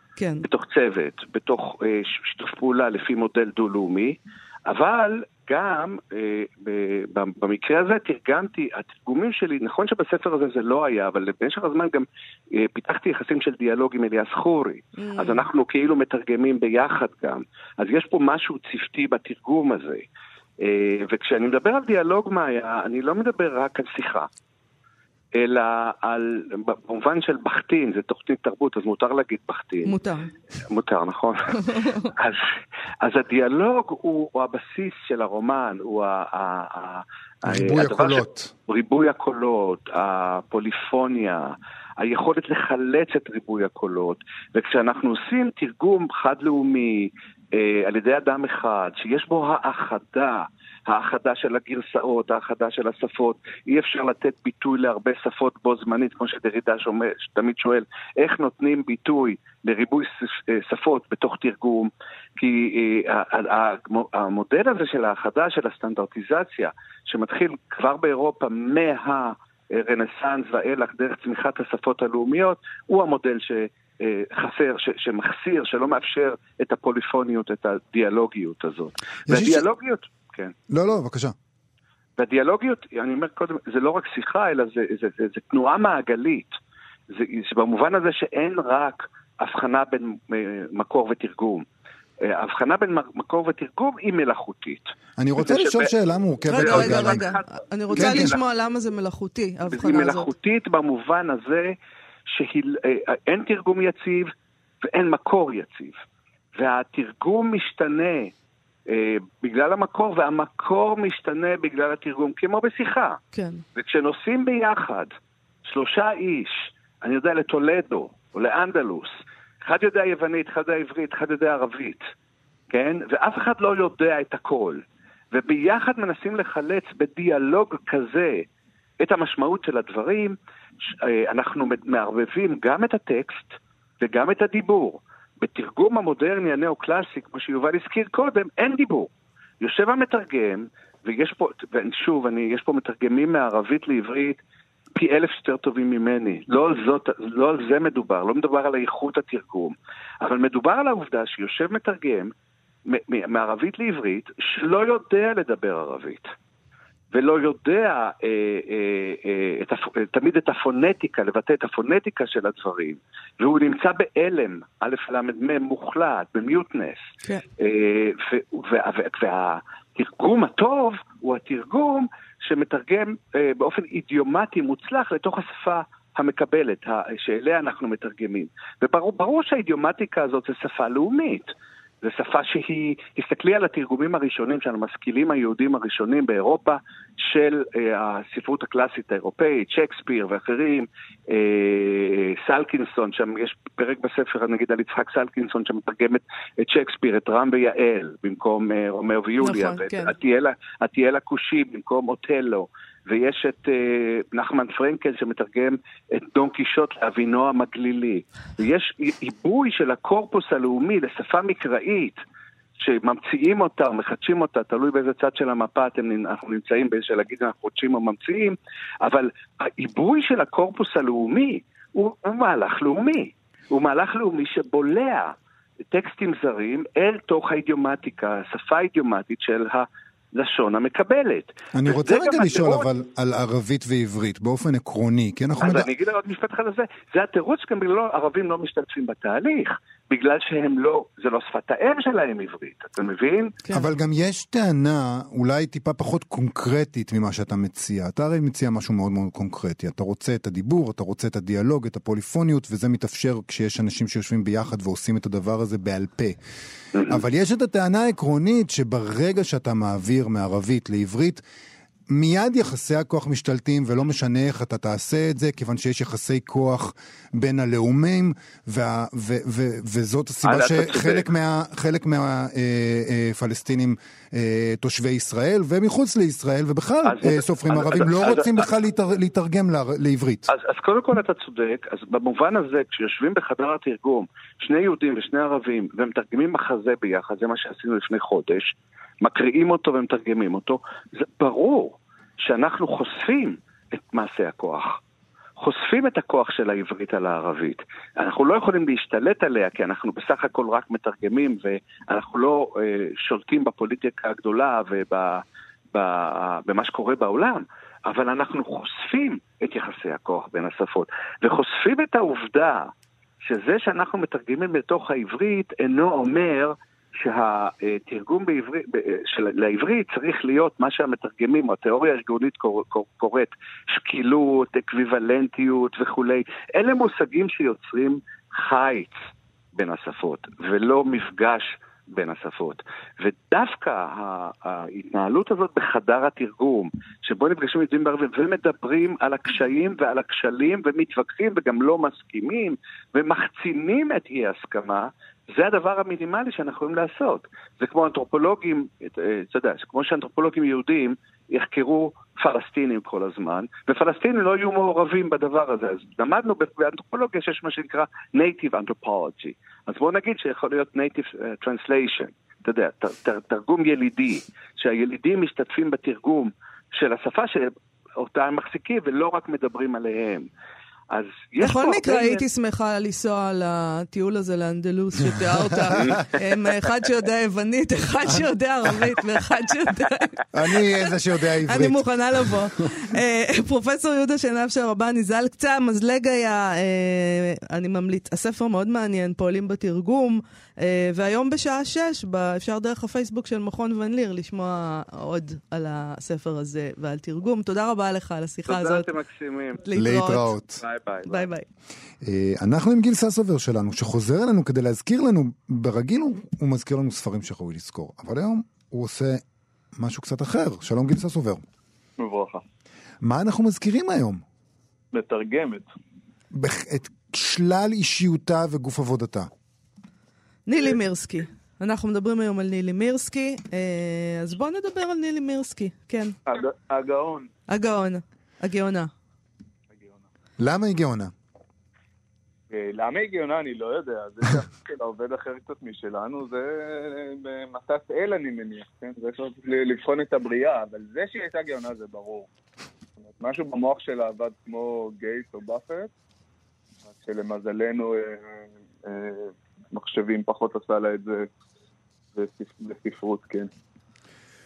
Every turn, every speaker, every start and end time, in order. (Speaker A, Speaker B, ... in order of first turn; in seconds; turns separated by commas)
Speaker A: 0.2-0.5, Speaker B: 0.4-20.0, Speaker A: 15.0-15.4, Speaker B: 20.6-24.3, Speaker B: 25.4-29.9, Speaker A: 29.9-30.3, Speaker B: 30.7-32.5, Speaker A: 31.7-32.1, Speaker B: 33.0-80.5, Speaker C: 37.5-38.5, Speaker C: 79.3-79.7, Speaker C: 80.7-81.3, Speaker B: 82.2-86.6, Speaker B: 87.1-91.7, Speaker B: 92.2-95.9, Speaker C: 95.2-97.2, Speaker A: 96.5-100.3, Speaker B: 96.6-98.4, Speaker C: 98.0-98.3, Speaker B: 99.7-101.8, Speaker B: 102.3-104.3, Speaker B: 104.8-106.0, Speaker B: 106.6-108.3, Speaker B: 108.9-113.2, Speaker A: 113.3-113.6, Speaker B: 113.8-115.1, Speaker B: 115.7-119.1, Speaker B: 119.6-122.1, Speaker B: 122.7-124.8, Speaker B: 125.3-128.4, Speaker B: 129.0-139.1, Speaker B: 139.6-144.4, Speaker B: 144.9-152.3, Speaker B: 152.9-156.3, Speaker B: 157.1-167.0, Speaker B: 167.6-181.5, Speaker B: 182.0-212.2, Speaker A: 199.4-200.1, Speaker B: 212.8-225.3, Speaker B: 225.9-232.9, Speaker C: 231.7-235.9, Speaker B: 235.6-243.6, Speaker C: 243.7-256.4, Speaker C: 257.1-261.4, Speaker C: 262.1-280.5, Speaker B: 270.4-271.3, Speaker B: 277.1-278.7, Speaker B: 280.5-295.0, Speaker B: 295.6-305.4, Speaker B: 305.9-312.9, Speaker B: 313.4-329.2, Speaker B: 329.8-370.5, Speaker B: 371.1-372.4, Speaker A: 371.6-380.4, Speaker B: 376.0-376.2, Speaker C: 380.5-382.1, Speaker A: 381.7-399.1, Speaker B: 398.7-399.8, Speaker A: 399.9-400.6, Speaker C: 399.9-400.8, Speaker B: 400.8-401.5, Speaker A: 401.3-401.6, Speaker C: 402.2-409.4, Speaker C: 410.0-411.6, Speaker D: 412.2-412.6, Speaker C: 413.2-414.4, Speaker D: 415.1-415.9, Speaker C: 416.5-419.5, Speaker A: 420.7-426.4, Speaker D: 426.5-427.5, Speaker A: 427.7-429.1, Speaker D: 429.9-430.2, Speaker C: 430.6-431.3, Speaker D: 432.7-442.5, Speaker D: 443.4-446.1, Speaker D: 447.1-451.5, Speaker D: 452.4-453.7